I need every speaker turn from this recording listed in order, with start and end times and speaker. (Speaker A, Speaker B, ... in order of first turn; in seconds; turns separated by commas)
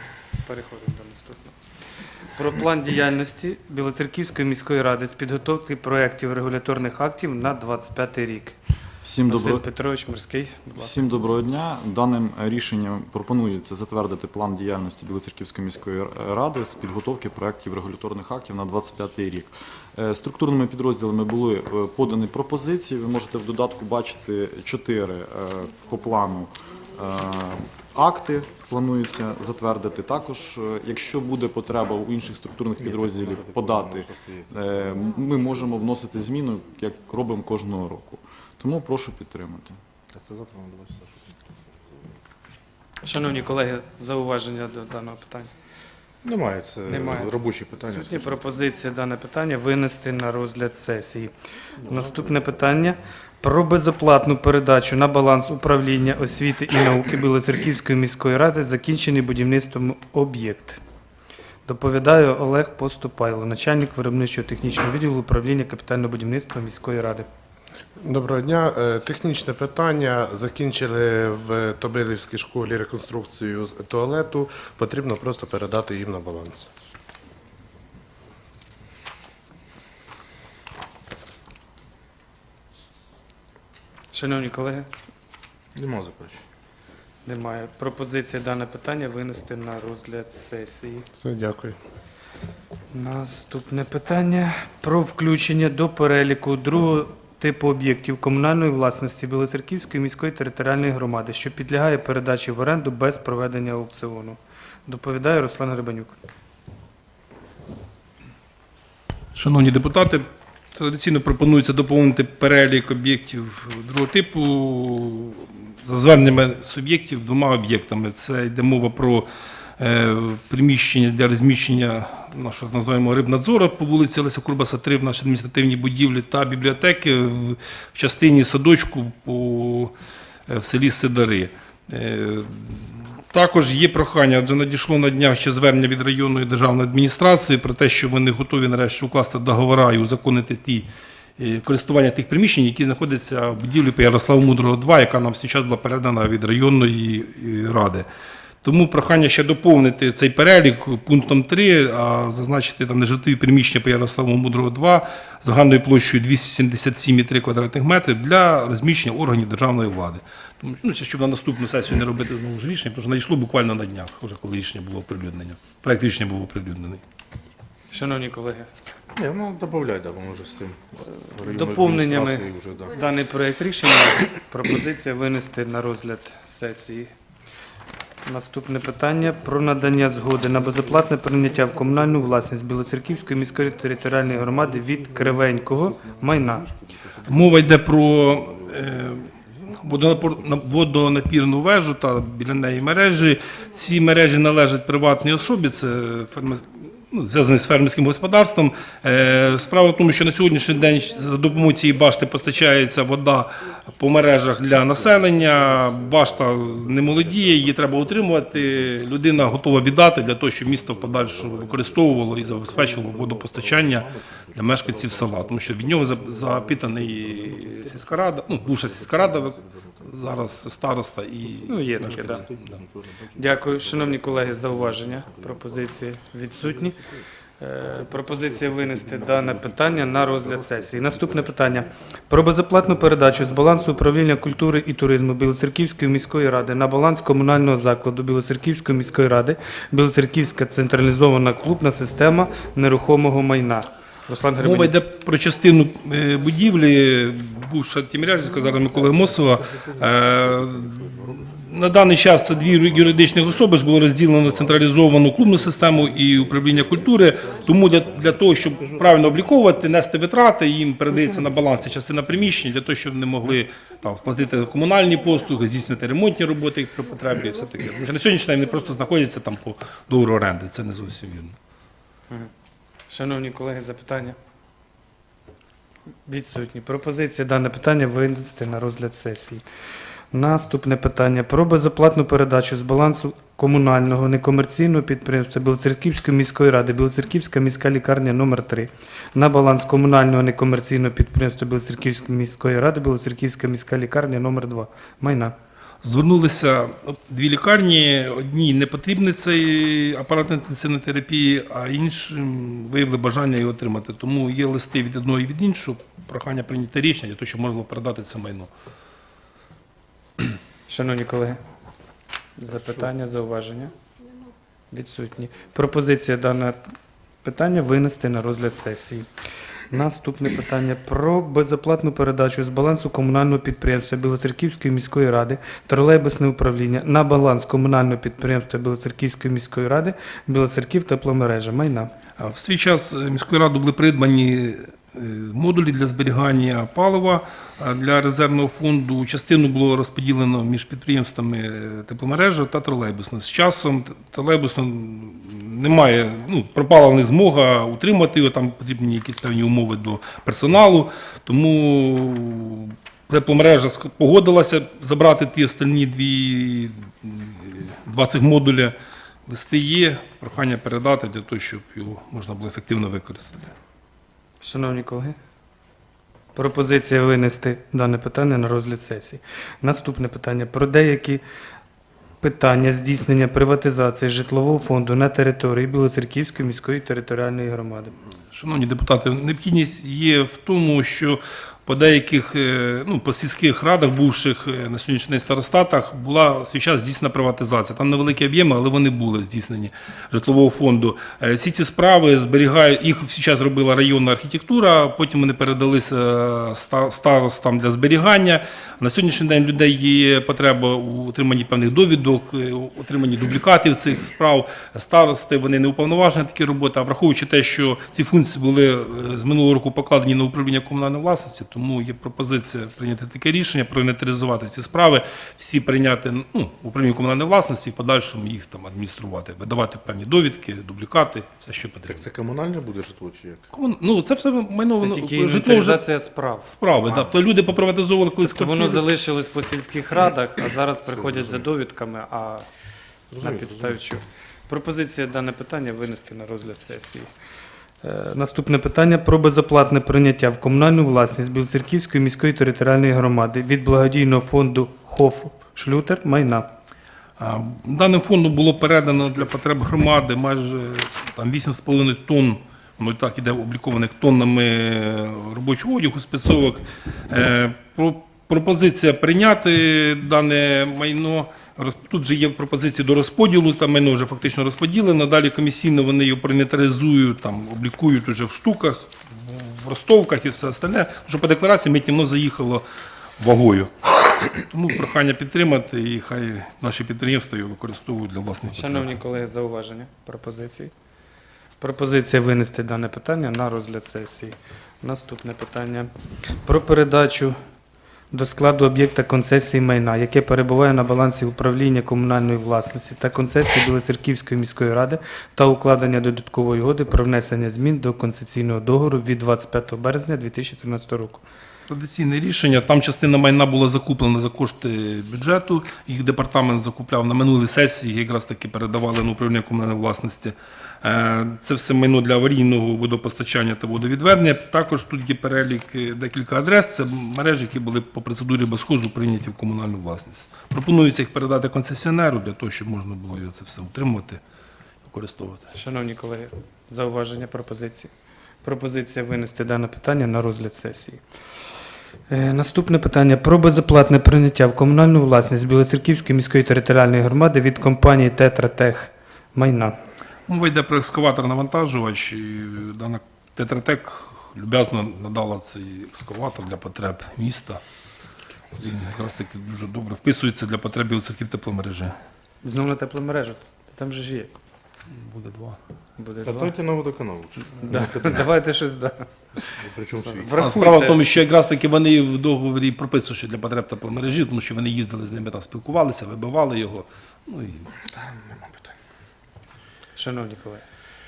Speaker A: 0.4-1.6, Speaker A: 2.3-8.6, Speaker B: 9.0-9.7, Speaker A: 9.3-11.1, Speaker B: 10.8-39.8, Speaker C: 32.8-34.5, Speaker C: 40.1-41.3, Speaker A: 43.0-45.5, Speaker C: 46.2-48.2, Speaker A: 46.9-51.3, Speaker A: 51.8-60.8, Speaker A: 61.6-67.3, Speaker D: 68.1-76.7, Speaker A: 84.1-84.9, Speaker C: 85.7-86.4, Speaker A: 87.2-91.0, Speaker D: 91.2-91.8, Speaker A: 92.9-106.1, Speaker E: 109.3-119.2, Speaker E: 119.8-129.9, Speaker E: 130.5-140.9, Speaker E: 141.4-148.1, Speaker E: 148.6-167.0, Speaker A: 167.9-168.7, Speaker C: 169.2-170.8, Speaker C: 171.3-172.9, Speaker A: 171.4-177.1, Speaker A: 178.2-186.7, Speaker C: 184.6-187.8, Speaker E: 187.2-222.6, Speaker C: 188.5-188.9, Speaker C: 205.7-209.6, Speaker C: 210.9-218.0, Speaker C: 218.7-220.3, Speaker C: 221.4-225.9, Speaker A: 221.7-222.4, Speaker A: 223.4-227.0, Speaker C: 226.6-226.9, Speaker A: 227.6-244.9, Speaker C: 228.1-231.8, Speaker E: 244.6-271.5, Speaker C: 248.9-251.5, Speaker C: 252.7-253.6, Speaker C: 254.4-258.9, Speaker A: 273.1-274.4, Speaker A: 276.2-279.6, Speaker A: 280.3-295.5, Speaker E: 296.0-308.7, Speaker A: 310.9-311.6, Speaker A: 312.6-313.9, Speaker A: 314.9-316.8, Speaker A: 317.4-319.3, Speaker A: 319.9-332.1, Speaker E: 332.4-358.9, Speaker E: 359.5-363.7, Speaker A: 364.6-365.4, Speaker A: 366.5-371.4, Speaker A: 372.4-378.1, Speaker E: 378.5-422.2, Speaker C: 422.1-423.6, Speaker E: 423.7-426.0, Speaker A: 425.0-426.7, Speaker E: 426.6-429.1, Speaker A: 428.4-432.7, Speaker C: 431.1-431.6, Speaker C: 433.3-434.0, Speaker A: 433.4-437.3, Speaker A: 438.0-446.7, Speaker E: 447.4-472.8, Speaker E: 473.4-479.1, Speaker A: 478.7-480.9, Speaker A: 481.8-486.1, Speaker A: 486.6-487.6, Speaker A: 488.3-501.4, Speaker E: 501.9-524.4, Speaker E: 525.0-525.6, Speaker A: 525.7-528.1, Speaker A: 528.6-531.2, Speaker A: 532.3-539.9, Speaker E: 540.5-547.8, Speaker E: 548.8-552.1, Speaker A: 552.6-554.6, Speaker E: 555.1-555.8, Speaker A: 556.2-556.7, Speaker C: 556.4-558.3, Speaker A: 557.8-561.2, Speaker C: 559.8-560.5, Speaker E: 560.6-567.9, Speaker C: 568.0-568.9, Speaker A: 570.1-570.8